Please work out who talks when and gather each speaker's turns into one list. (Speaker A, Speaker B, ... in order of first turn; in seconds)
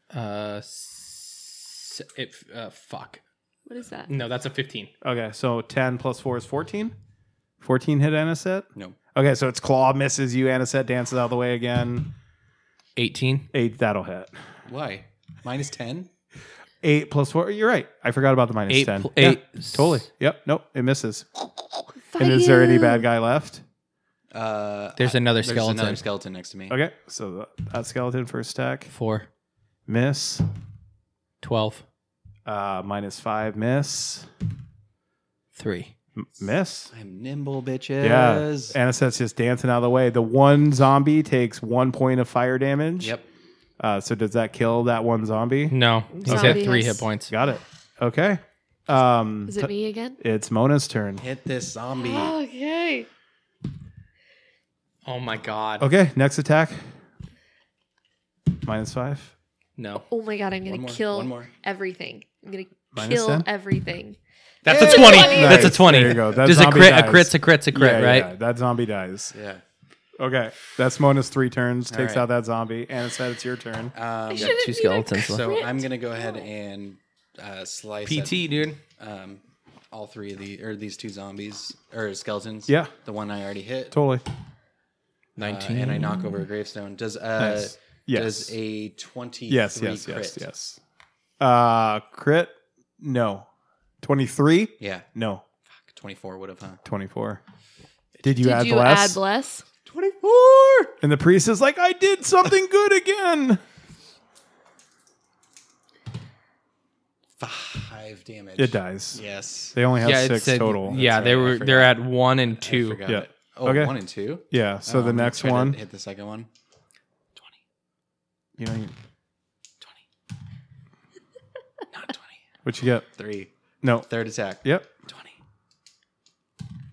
Speaker A: 0.1-3.2, 4.1-4.9, 13.0-13.5, 18.7-20.0, 25.0-26.0, 28.9-29.3, 31.4-31.8, 35.5-35.9, 45.7-47.3, 55.0-55.9, 59.8-60.1, 64.7-68.3, 74.3-75.6, 78.0-78.8, 85.4-86.4, 110.0-113.0
Speaker B: 3.7-4.1, 22.1-23.1, 46.2-47.1, 49.5-50.2, 52.0-53.1, 60.1-64.2, 64.7-65.5, 74.3-76.5, 98.3-99.7
Speaker C: 5.0-6.9, 7.6-12.1, 13.5-14.3, 16.8-23.6, 26.7-28.9, 29.9-30.5, 32.5-34.3, 36.2-36.9, 38.0-43.2, 43.8-46.7, 47.3-51.2, 55.8-56.8, 58.6-59.3, 62.9-63.5, 65.2-69.3, 70.2-74.0, 82.7-82.9, 83.9-84.2, 87.4-88.5, 89.5-90.8, 91.4-93.5, 94.0-95.4, 96.8-97.4, 98.2-99.2, 101.0-103.6, 108.6-109.2, 109.7-111.0, 113.1-114.0, 114.5-115.8, 118.6-118.9, 122.7-123.1, 123.8-124.1, 124.6-124.9
Speaker D: 14.7-16.1, 24.3-26.8, 36.9-38.8, 43.0-43.3, 51.2-52.4, 60.6-61.5, 64.7-66.2, 69.3-69.6, 71.9-72.3, 73.9-84.0, 85.4-90.5, 94.8-95.1, 95.9-96.8, 99.9-101.0, 107.4-109.8, 110.9-116.5, 117.3-117.6, 121.9-122.4, 123.1-123.5, 124.1-125.4